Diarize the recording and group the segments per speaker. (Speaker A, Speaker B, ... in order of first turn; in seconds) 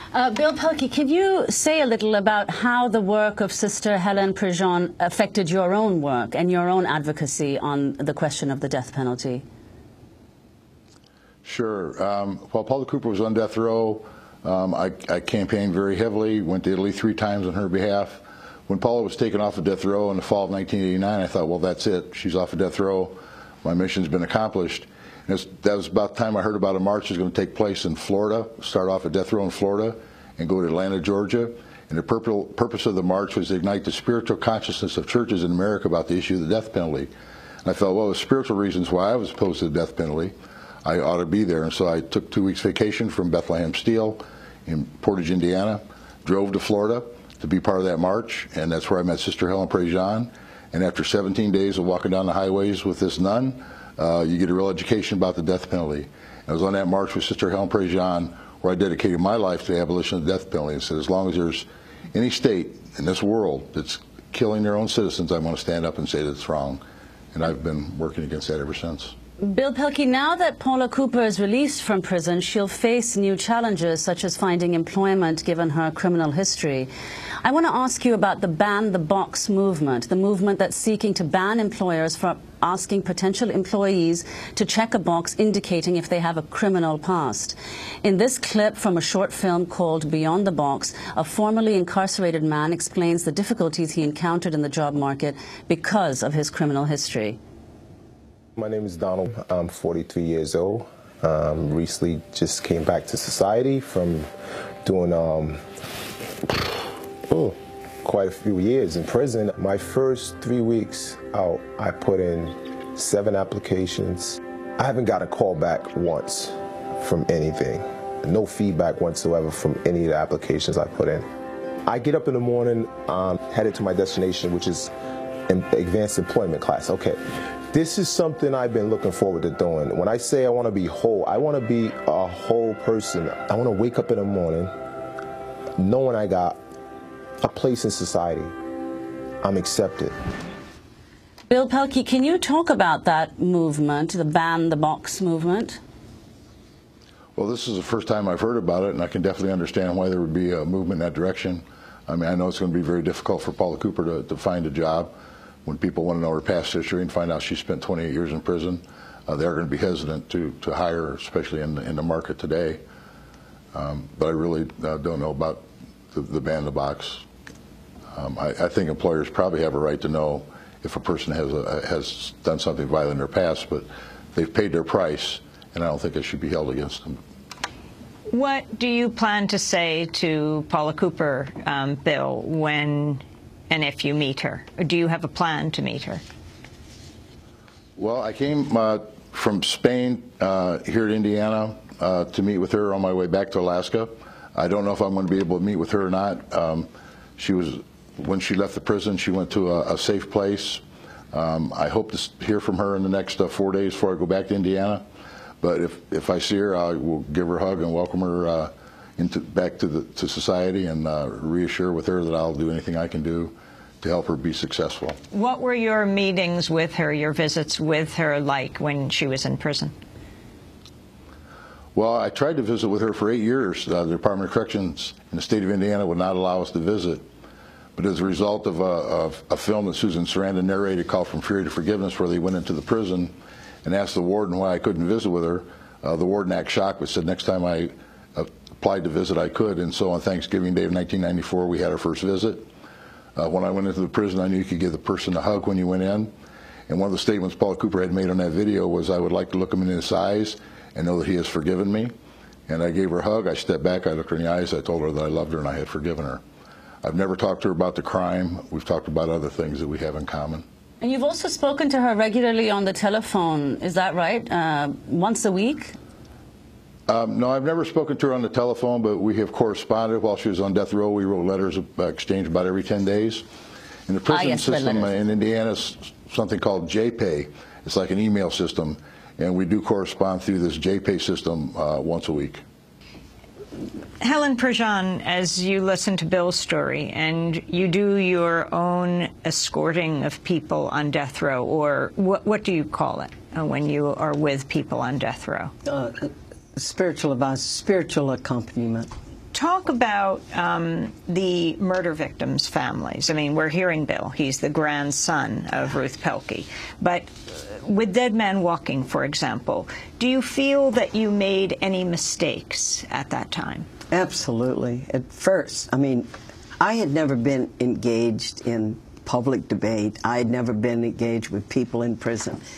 Speaker A: 0.1-9.4, 69.4-76.9, 77.4-97.4, 141.5-145.8, 261.0-265.9, 274.3-275.2
Speaker B: 11.4-37.1, 37.6-66.8, 67.3-69.2, 147.3-155.1, 155.7-162.8, 163.7-167.2, 168.1-177.2, 188.0-205.1, 205.6-215.2, 221.9-227.2, 228.0-242.7, 243.3-246.3, 246.9-252.1, 252.7-256.4, 257.0-260.6, 267.1-273.4, 274.1-282.6
Speaker C: 98.6-104.3, 104.8-105.6, 106.5-106.7, 107.3-121.2, 121.9-124.9, 125.5-134.7, 135.8-136.6, 137.4-138.5, 139.4-140.1
Speaker D: 178.3-186.2, 215.3-219.9, 284.2-295.7, 299.5-313.9
Speaker E: 295.9-299.1, 314.1-316.3, 316.8-322.6